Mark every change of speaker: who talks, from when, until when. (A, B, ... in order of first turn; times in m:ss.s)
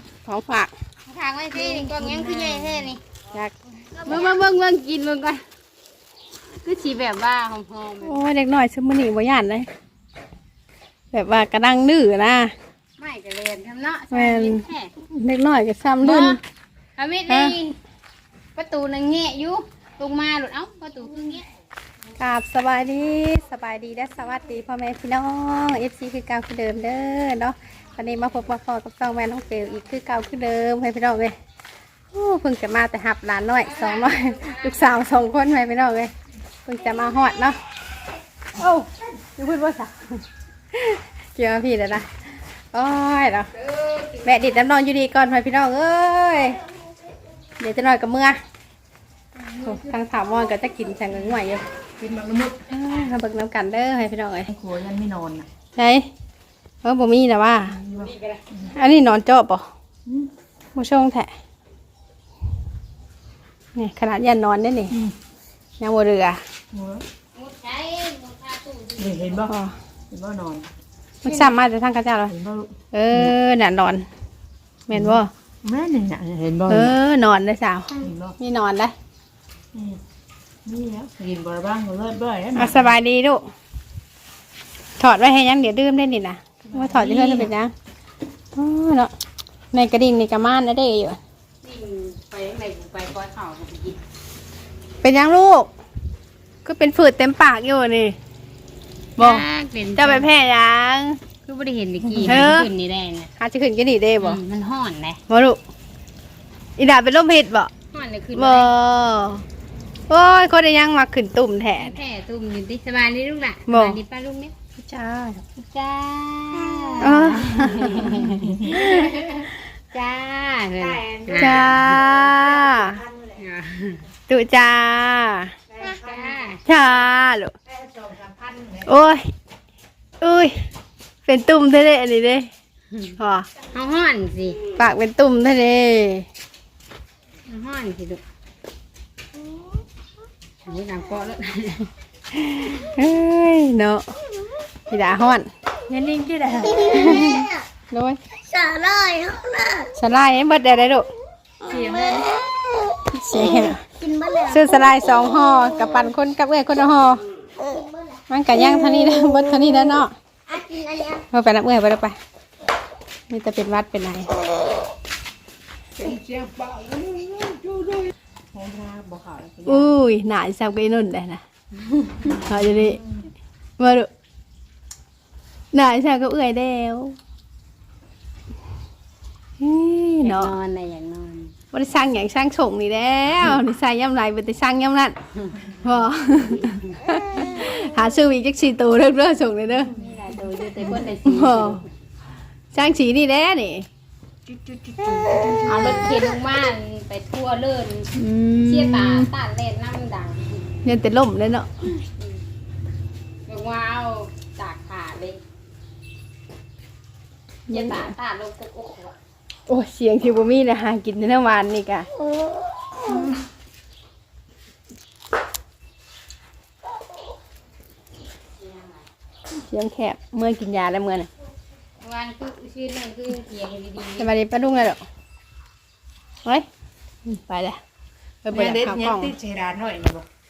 0:00.3-0:00.7 A
0:01.1-0:03.0 B
0:01.5-0:02.7 C
0:04.0-0:04.4 C
0:04.0-0:05.4 B
0:06.6-0:08.2 B
0:08.0-0:09.7 A
0:11.1-0:12.5 A
0:13.0-0:14.9 B
0:14.1-0:16.4 A
0:16.0-0:16.4 B
0:17.0-0:17.8 B
0:17.3-0:17.6 A
0:18.6-0:21.5 B
0:22.2-0:31.4 A
0:32.1-0:36.1 A
0:33.6-0:34.8 B
0:36.7-0:37.6 A
0:38.6-0:40.2 A
0:40.7-0:42.1 A
0:42.7-0:43.5 A
0:43.6-0:44.4 B
0:44.2-0:46.6 A
0:47.6-0:48.4 A
0:49.6-0:51.6 A
0:52.0-0:52.6 D
0:52.7-0:54.5 A
0:54.5-0:55.5 D
0:55.8-0:56.1 A
0:56.8-0:57.8 A
0:57.7-0:58.7 D
0:58.0-0:58.4 B
0:58.7-0:59.6 A
1:00.8-1:01.3 A
1:03.8-1:05.0 A
1:05.8-1:06.4 A
1:06.7-1:07.0 D
1:07.3-1:09.5 B
1:09.0-1:09.5 D
1:09.5-1:09.7 A
1:10.1-1:10.7 D
1:11.2-1:12.3 A
1:12.3-1:13.3 D
1:12.9-1:14.0 A
1:14.9-1:15.3 A
1:14.9-1:17.0 D
1:16.7-1:18.9 A
1:18.0-1:18.4 D
1:19.7-1:20.0 D
1:20.7-1:22.9 D
1:22.6-1:23.5 A
1:25.0-1:27.7 A
1:26.7-1:27.5 D
1:28.6-1:29.1 A
1:29.7-1:31.2 A
1:31.6-1:34.0 B
1:35.0-1:35.7 A
1:36.6-1:38.2 A
1:39.2-1:39.4 A
1:39.2-1:40.3 B
1:40.0-1:41.2 A
1:41.5-1:43.3 B
1:42.2-1:42.7 A
1:43.4-1:44.4 A
1:44.2-1:45.2 B
1:45.3-1:45.6 A
1:46.8-1:47.7 A
1:47.9-1:48.7 B
1:48.4-1:49.4 A
1:50.1-1:52.0 A
1:51.8-1:54.5 B
1:53.7-1:54.0 A
1:54.8-1:55.4 A
1:55.6-2:01.8 B
1:57.0-1:59.1 A
1:58.2-1:58.7 D
2:00.8-2:03.4 D
2:01.4-2:03.0 A
2:03.4-2:04.0 B
2:04.3-2:05.5 A
2:05.7-2:06.5 D
2:05.8-2:06.6 B
2:06.7-2:07.5 A
2:07.7-2:08.9 D
2:08.8-2:09.2 A
2:10.2-2:10.6 A
2:11.3-2:12.5 A
2:13.2-2:13.5 A
2:13.7-2:14.6 B
2:14.8-2:16.3 A
2:17.5-2:18.2 B
2:20.6-2:21.9 B
2:22.3-2:24.0 A
2:24.9-2:28.2 A
2:25.9-2:26.7 D
2:26.6-2:27.6 C
2:28.3-2:29.9 C
2:29.9-2:31.1 A
2:31.6-2:33.0 C
2:31.7-2:32.3 D
2:33.1-2:33.8 A
2:33.5-2:34.9 C
2:34.5-2:37.2 A
2:37.6-2:38.2 C
2:38.3-2:40.1 A
2:40.5-2:41.3 C
2:41.3-2:42.2 A
2:43.3-2:44.3 A
2:46.0-2:50.0 D
2:49.7-2:51.4 A
2:52.3-2:53.0 A
2:53.8-2:54.1 A
2:55.7-2:57.2 A
2:59.6-3:00.5 A
3:00.2-3:01.5 B
3:01.7-3:05.2 A
3:05.8-3:09.9 A
3:10.0-3:11.9 B
3:11.0-3:11.8 A
3:12.7-3:13.9 A
3:14.5-3:15.4 D
3:15.2-3:16.0 A
3:15.6-3:18.1 B
3:18.2-3:19.3 A
3:18.6-3:20.7 B
3:20.8-3:21.7 A
3:22.2-3:22.4 B
3:23.5-3:25.4 B
3:27.7-3:28.1 A
3:27.7-3:29.2 B
3:29.7-3:32.1 A
3:38.6-3:39.0 B
3:39.7-3:41.3 A
3:42.0-3:44.3 B
3:44.2-3:45.0 A
3:47.3-3:47.8 A
3:48.4-3:49.3 A
3:48.5-3:50.2 D